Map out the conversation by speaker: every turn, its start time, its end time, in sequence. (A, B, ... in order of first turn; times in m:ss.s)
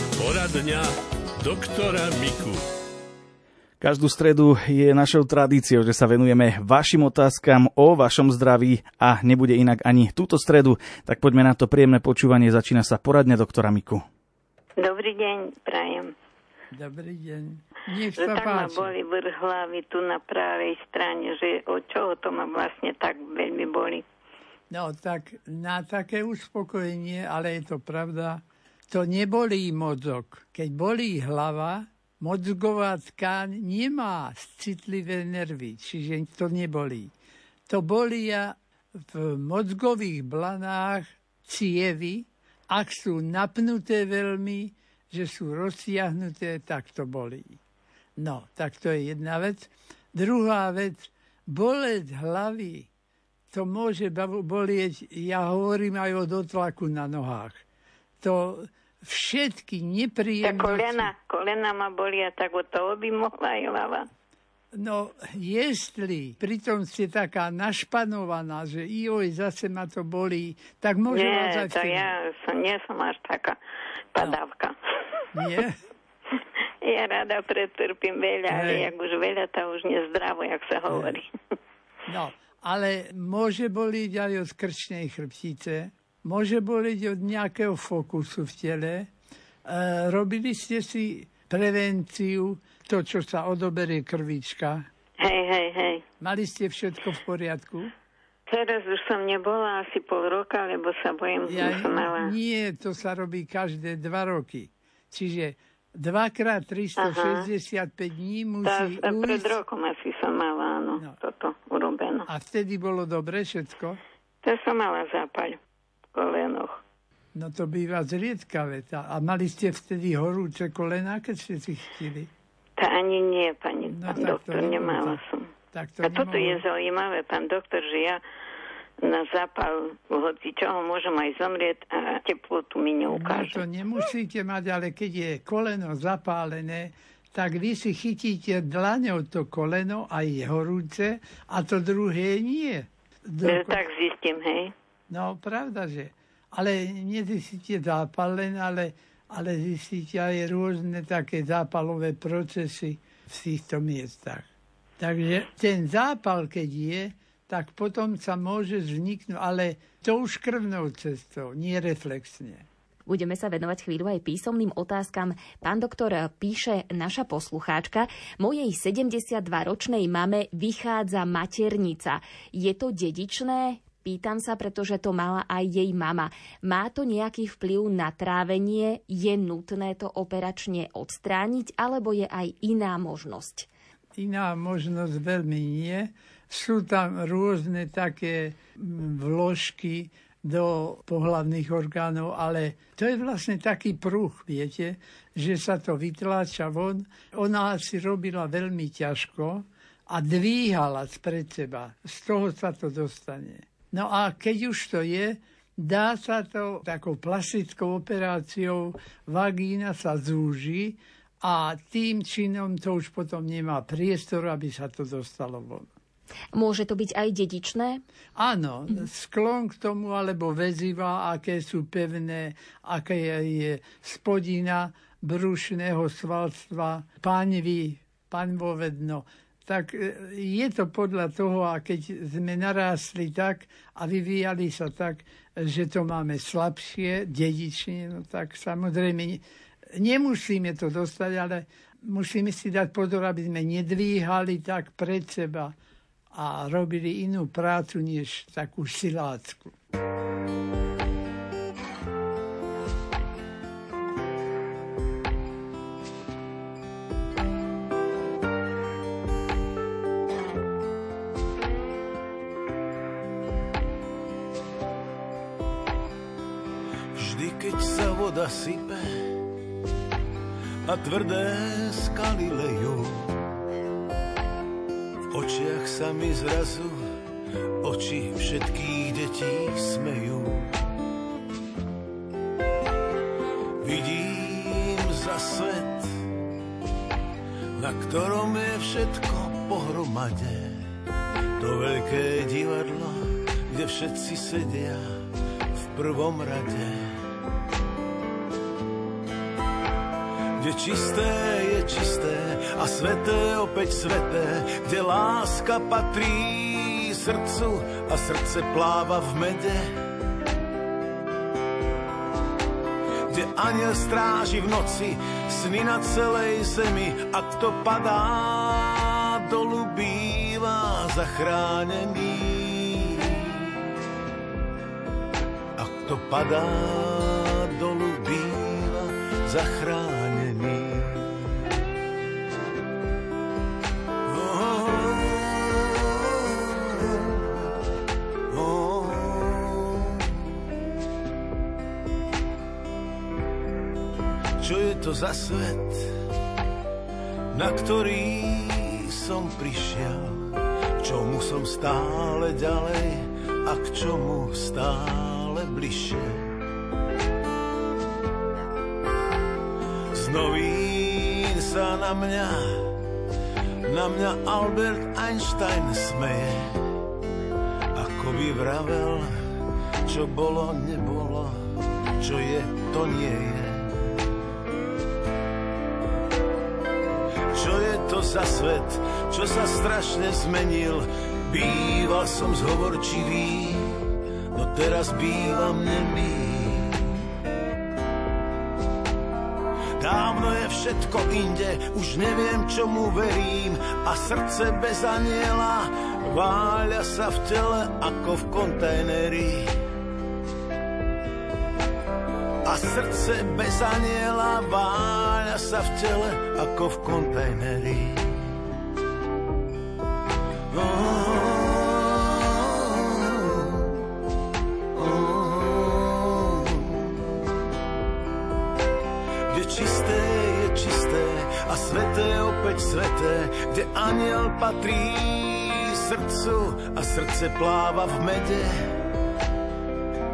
0:00.2-0:00.9 A
0:01.4-0:02.6 A
0:03.8-0:14.0 B
0:14.8-0:16.1 C
0:16.7-0:18.9 D
0:18.2-0:24.0 C
0:24.7-0:37.1 D
0:37.7-0:47.6 D
0:48.2-0:52.9 D
0:53.5-0:57.6 D
0:58.2-1:01.1 D
1:00.4-1:04.1 C
1:04.7-1:12.1 D
1:11.1-1:13.6 C
1:14.1-1:14.7 C
1:15.3-1:15.8 D
1:16.8-1:21.3 C
1:18.5-1:18.9 D
1:22.1-1:29.1 D
1:29.6-1:34.8 D
1:35.2-1:36.0 C
1:36.2-1:37.9 D
1:38.5-1:42.3 C
1:41.4-1:49.6 D
1:47.0-1:47.5 C
1:48.6-1:52.2 C
1:52.2-1:54.0 D
1:54.4-1:55.6 C
1:56.1-1:56.8 C
1:57.3-2:02.3 D
2:02.8-2:05.5 C
2:03.9-2:05.2 D
2:05.7-2:06.6 D
2:06.0-2:08.2 C
2:09.0-2:13.6 C
2:13.1-2:23.8 D
2:23.4-2:24.7 C
2:25.1-2:34.5 D
2:35.0-2:42.6 D
2:43.0-3:03.7 E
3:04.2-3:35.9 D
3:36.5-3:38.0 E
3:38.4-3:59.4 D
4:00.0-4:05.7 D
4:06.3-4:09.7 D
4:27.2-4:29.1 F
4:30.8-4:33.3 F
4:35.3-4:37.0 F
4:37.8-4:40.7 F
4:43.8-4:46.1 F
4:47.8-4:50.9 F
4:51.6-4:55.0 F
4:55.8-4:57.1 F
5:00.6-5:09.9 F
5:13.3-5:23.6 F
5:25.8-5:31.2 F
5:34.3-5:37.5 F
5:38.5-5:40.1 F
5:44.6-5:46.1 F
5:47.5-5:56.5 F
6:00.1-6:02.8 F
6:03.9-6:06.7 F
6:07.9-6:09.3 F
6:10.1-6:11.6 F
6:12.2-6:14.0 F
6:17.5-6:23.9 F
6:24.5-6:27.0 F
6:30.0-6:39.7 F
6:42.6-6:48.3 F
6:50.7-6:53.7 F
6:55.0-6:56.7 F
6:59.5-7:08.9 F